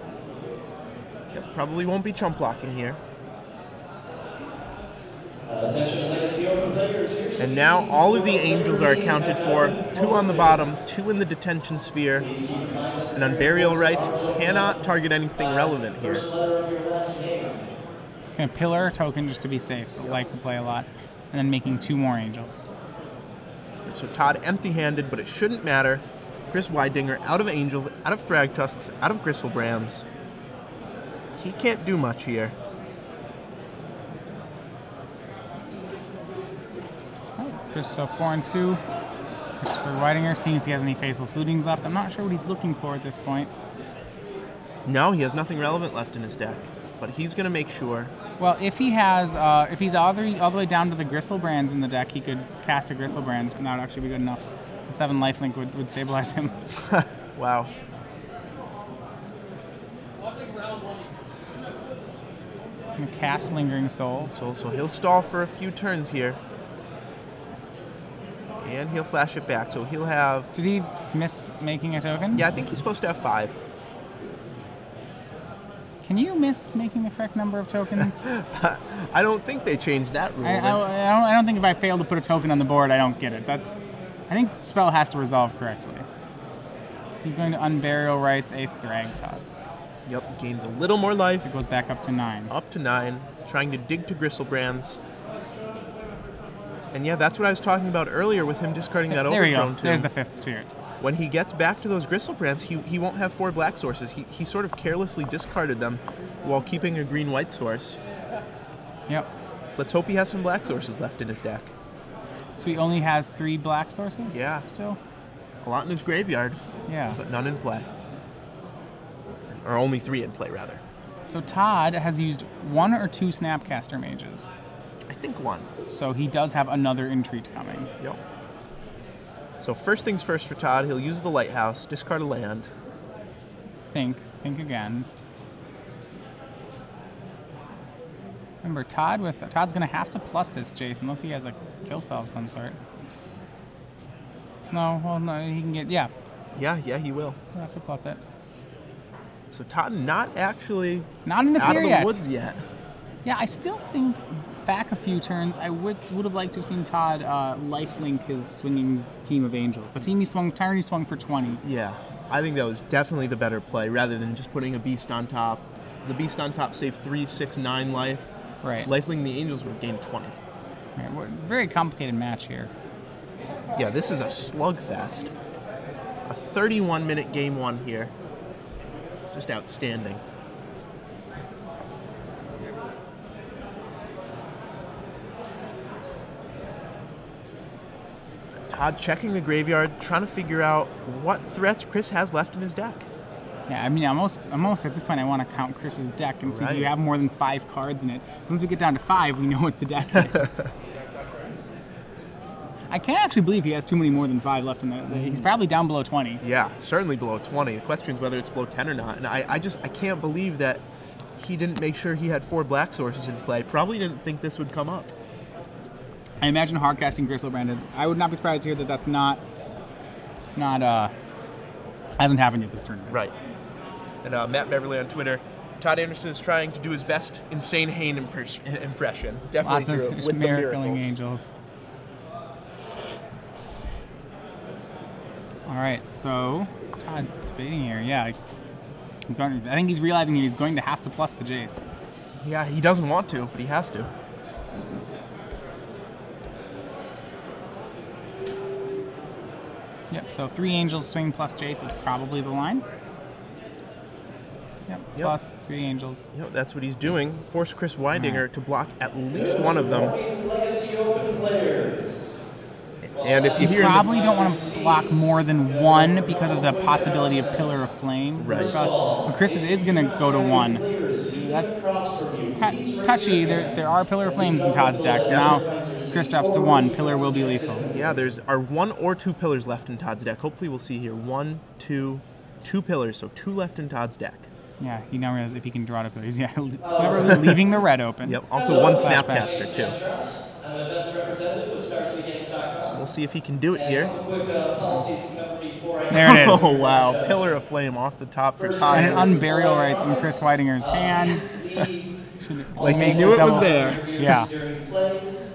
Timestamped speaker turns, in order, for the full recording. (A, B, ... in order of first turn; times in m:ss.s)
0:01.3-0:03.0 A
0:05.5-0:10.6 B
0:07.4-0:12.3 A
0:12.2-0:14.8 B
0:13.1-0:16.3 A
0:15.4-0:17.7 B
0:18.4-0:22.7 C
0:23.8-0:30.0 A
0:31.4-0:32.6 A
0:37.4-0:38.8 C
0:39.6-0:43.5 C
0:44.9-0:48.1 A
0:48.4-0:56.6 C
0:56.9-0:57.7 A
1:03.0-1:04.4 C
1:04.3-1:06.4 A
1:08.6-1:10.5 A
1:10.5-1:12.5 C
1:12.3-1:13.6 A
1:16.0-1:18.2 C
1:18.2-1:20.8 A
1:20.4-1:23.8 C
1:24.3-1:26.1 C
1:27.2-1:29.6 C
1:30.1-1:31.5 A
1:31.4-1:32.5 C
1:32.5-1:35.0 A
1:36.9-1:40.1 A
1:39.1-1:40.8 C
1:41.0-1:48.0 A
1:49.8-1:51.7 A
1:52.6-1:55.0 C
1:54.3-1:54.7 A
1:55.6-1:56.6 A
1:56.9-1:57.2 C
1:57.2-1:57.9 A
1:59.6-2:00.8 A
2:01.3-2:04.5 C
2:05.1-2:05.7 A
2:05.9-2:07.9 C
2:09.6-2:12.7 A
2:13.9-2:15.1 C
2:18.6-2:22.8 C
2:24.7-2:26.1 C
2:26.6-2:27.4 A
2:27.5-2:28.2 C
2:29.5-2:32.6 A
2:31.2-2:32.2 C
2:33.2-2:41.6 C
2:41.6-2:48.3 A
2:48.6-2:48.9 C
2:48.8-2:50.4 A
2:51.0-2:52.7 C
2:53.8-2:55.3 A
2:56.3-2:58.1 A
2:59.3-3:00.2 A
3:08.7-3:13.1 A
3:13.7-3:20.5 C
3:16.5-3:16.9 A
3:22.9-3:26.4 C
3:26.4-3:30.8 A
3:31.4-3:35.1 A
3:36.4-3:39.4 C
3:40.6-3:41.1 C
3:42.2-3:43.2 C
3:43.1-3:43.3 A
3:44.2-3:51.1 A
3:49.6-3:51.5 C
3:55.7-3:58.4 C
3:59.3-4:01.8 C
4:02.4-4:04.1 A
4:10.1-4:12.8 C
4:14.9-4:16.3 C
4:16.3-4:20.2 A
4:18.2-4:18.4 C
4:19.3-4:22.2 B
4:23.0-4:24.1 A
4:23.2-4:27.9 B
4:23.6-4:31.7 C
4:28.4-4:28.8 A
4:28.5-4:38.2 B
4:32.4-4:37.9 C
4:35.3-4:35.6 A
4:37.9-4:44.5 A
4:44.8-4:49.5 C
4:46.8-4:47.8 B
4:47.3-4:47.6 A
4:48.2-4:50.0 A
4:48.5-4:53.0 B
4:52.9-4:54.1 A
4:53.7-4:57.5 B
4:56.1-4:56.7 C
4:56.1-4:59.4 A
4:58.6-5:02.2 B
4:58.9-5:01.5 C
5:02.4-5:04.5 C
5:02.7-5:05.3 B
5:02.8-5:04.0 A